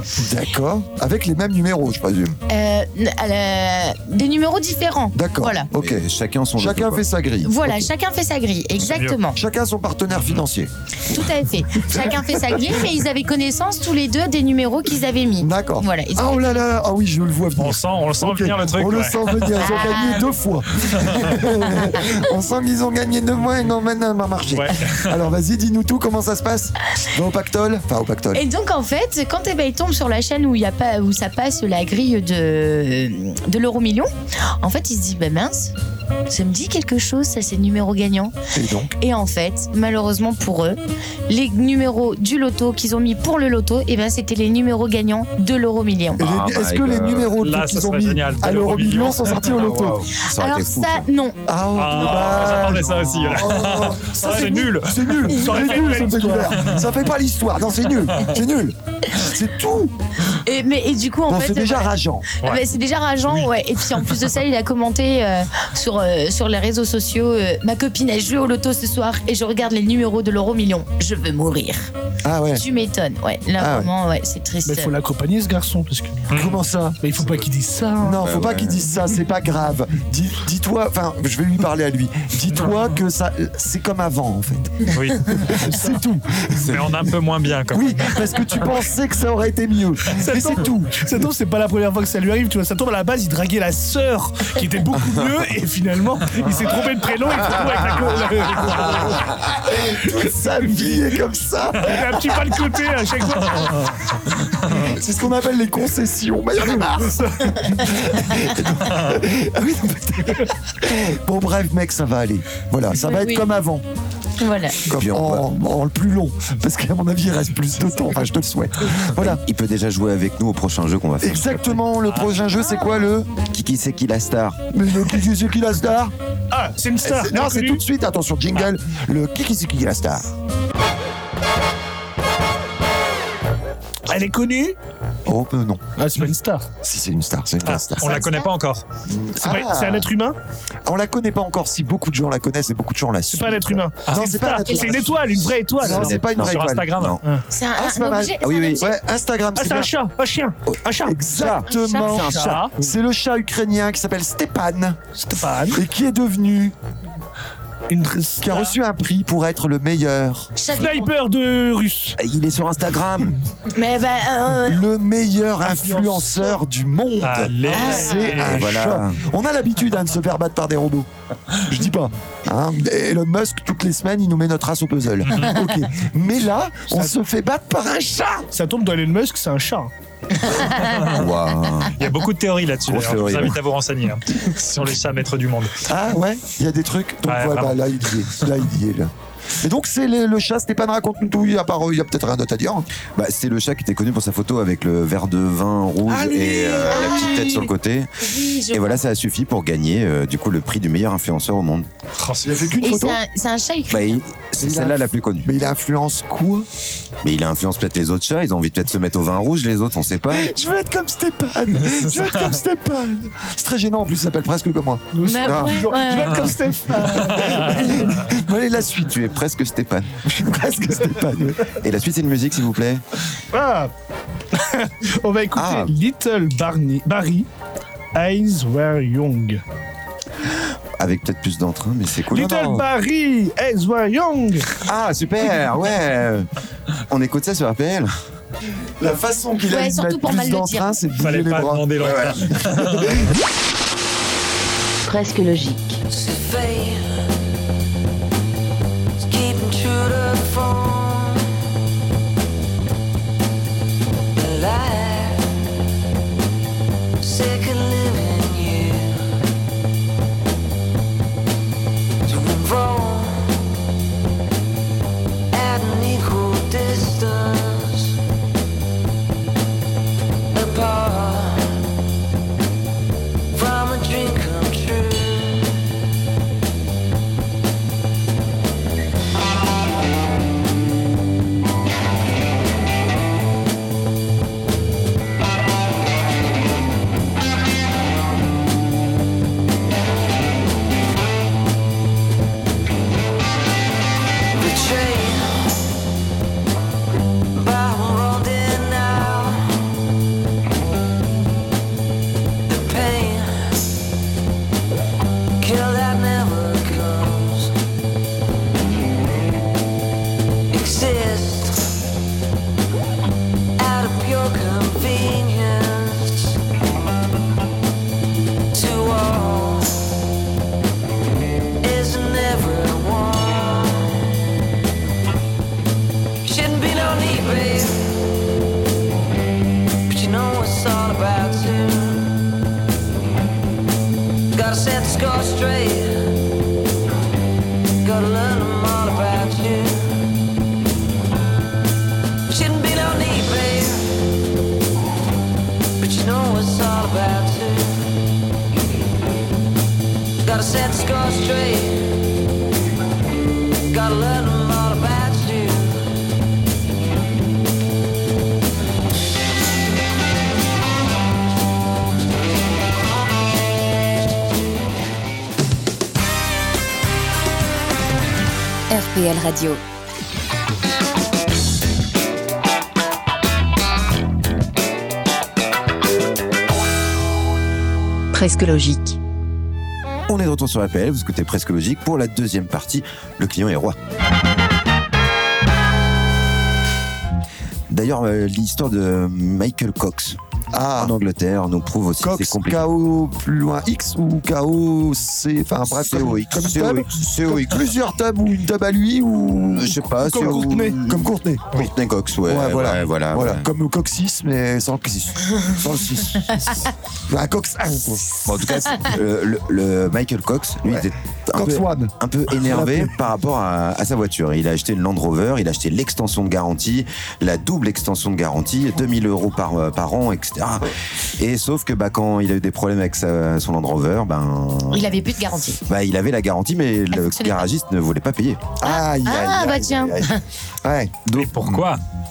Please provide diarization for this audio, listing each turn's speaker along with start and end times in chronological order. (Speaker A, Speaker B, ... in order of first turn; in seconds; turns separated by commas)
Speaker A: 0.2-2.4, Speaker B: 2.5-5.7, Speaker A: 5.1-6.0, Speaker C: 5.8-7.5, Speaker A: 6.6-7.9, Speaker B: 7.5-9.4, Speaker D: 8.8-9.2, Speaker A: 9.3-10.7, Speaker B: 11.1-16.6, Speaker A: 11.9-12.7, Speaker A: 15.4-28.4, Speaker D: 17.6-19.6, Speaker B: 19.6-20.3, Speaker D: 24.5-25.2, Speaker B: 28.3-34.1, Speaker B: 34.6-35.7, Speaker B: 36.3-38.3, Speaker A: 38.5-38.9, Speaker B: 39.0-46.2, Speaker C: 46.2-47.3, Speaker A: 46.2-50.1, Speaker D: 47.4-49.5, Speaker C: 49.5-51.1, Speaker B: 50.2-51.4, Speaker A: 51.5-59.9, Speaker D: 51.8-55.0, Speaker E: 54.2-54.6, Speaker E: 55.3-56.7, Speaker B: 60.3-71.9, Speaker A: 61.3-62.3, Speaker A: 72.2-72.6, Speaker B: 72.5-74.9, Speaker A: 73.6-73.9, Speaker E: 74.6-76.3, Speaker D: 76.3-76.6, Speaker A: 76.3-77.0, Speaker E: 77.0-78.2, Speaker A: 78.0-87.1, Speaker C: 78.2-78.8, Speaker D: 84.9-85.4, Speaker E: 85.6-86.0, Speaker D: 86.6-88.3, Speaker A: 87.7-91.1, Speaker E: 90.2-99.3, Speaker A: 98.7-102.6, Speaker E: 101.8-104.0, Speaker A: 104.8-113.8, Speaker E: 106.8-107.6, Speaker B: 112.9-113.5, Speaker B: 114.4-114.8, Speaker A: 114.8-119.4, Speaker C: 114.9-115.5, Speaker C: 119.2-121.8, Speaker A: 121.2-123.3, Speaker D: 122.0-122.3, Speaker C: 123.5-124.6, Speaker A: 124.7-126.1, Speaker E: 126.5-127.8, Speaker A: 127.0-130.3, Speaker E: 134.1-134.8, Speaker A: 135.2-135.9, Speaker E: 136.0-136.7, Speaker A: 136.8-138.2, Speaker D: 137.7-138.8, Speaker B: 138.0-138.5, Speaker A: 139.1-140.1, Speaker E: 139.4-140.4, Speaker A: 140.8-147.0, Speaker E: 143.3-146.2, Speaker B: 144.7-144.9, Speaker C: 145.8-147.2, Speaker D: 146.4-147.2, Speaker B: 147.5-148.9, Speaker A: 147.8-149.9, Speaker C: 148.4-148.8, Speaker E: 149.6-151.2, Speaker A: 151.0-155.0, Speaker C: 151.3-152.7, Speaker B: 151.7-152.3, Speaker E: 152.1-152.7, Speaker E: 155.2-155.8, Speaker A: 155.7-156.8, Speaker E: 157.9-158.7, Speaker A: 158.4-160.5, Speaker B: 160.6-161.1, Speaker E: 160.8-162.2, Speaker C: 162.2-163.4, Speaker B: 163.7-164.8, Speaker A: 164.6-171.1, Speaker E: 165.8-166.2, Speaker D: 167.2-168.7, Speaker B: 167.7-168.2, Speaker C: 168.4-169.2, Speaker A: 171.6-178.5, Speaker D: 175.2-175.6, Speaker E: 178.5-179.9, Speaker C: 181.1-182.0, Speaker D: 182.0-185.9, Speaker C: 182.9-183.6, Speaker A: 185.9-192.9, Speaker D: 187.3-187.8, Speaker C: 193.2-198.1, Speaker E: 196.1-197.2, Speaker B: 196.9-199.0, Speaker C: 198.7-201.9, Speaker D: 202.2-202.5, Speaker A: 202.4-203.2, Speaker B: 202.8-204.1, Speaker C: 203.9-205.5, Speaker A: 204.6-206.7, Speaker C: 207.2-210.5, Speaker A: 210.3-215.0, Speaker D: 211.8-212.5, Speaker E: 215.1-218.0, Speaker B: 215.2-216.5, Speaker C: 215.5-215.8, Speaker A: 217.3-219.2, Speaker C: 219.0-220.1, Speaker A: 220.2-221.7, Speaker C: 221.8-223.0, Speaker E: 223.5-223.9, Speaker E: 224.5-227.5, Speaker C: 225.5-225.9, Speaker E: 228.1-229.6, Speaker C: 231.0-232.6, Speaker E: 232.3-234.7, Speaker A: 232.3-232.9, Speaker C: 234.8-236.5, Speaker C: 237.1-238.1, Speaker A: 239.0-243.3, Speaker B: 239.7-240.9, Speaker D: 241.2-243.3, Speaker C: 242.0-242.4, Speaker F: 246.1-247.2, Speaker F: 249.2-251.5, Speaker F: 254.3-255.6, Speaker F: 257.2-259.2, Speaker F: 262.2-263.7, Speaker F: 265.5-268.2, Speaker F: 270.5-271.8, Speaker F: 273.5-275.8, Speaker F: 294.5-295.8, Speaker F: 297.5-299.9, Speaker F: 302.7-303.8, Speaker F: 305.6-307.7, Speaker F: 310.7-311.9, Speaker F: 313.8-316.6, Speaker F: 318.7-320.0, Speaker F: 321.8-324.4, Speaker F: 326.4-328.2, Speaker F: 330.1-332.4, Speaker F: 334.5-336.4, Speaker F: 338.0-340.3, Speaker F: 342.5-344.2, Speaker F: 346.0-348.1, Speaker F: 350.4-352.4, Speaker F: 353.8-356.1, Speaker B: 368.9-369.8, Speaker B: 378.3-379.1, Speaker C: 380.3-384.0, Speaker C: 387.9-390.4, Speaker A: 390.7-391.2, Speaker C: 391.0-392.8, Speaker A: 392.2-401.9, Speaker C: 395.9-397.9, Speaker C: 399.6-403.7, Speaker E: 400.2-401.0, Speaker A: 402.4-408.3, Speaker C: 408.4-425.1, Speaker A: 410.9-413.1, Speaker B: 424.9-425.8, Speaker C: 425.9-428.6, Speaker B: 427.2-427.7, Speaker A: 428.8-431.2, Speaker B: 428.8-430.4, Speaker C: 431.2-431.9, Speaker D: 431.3-432.0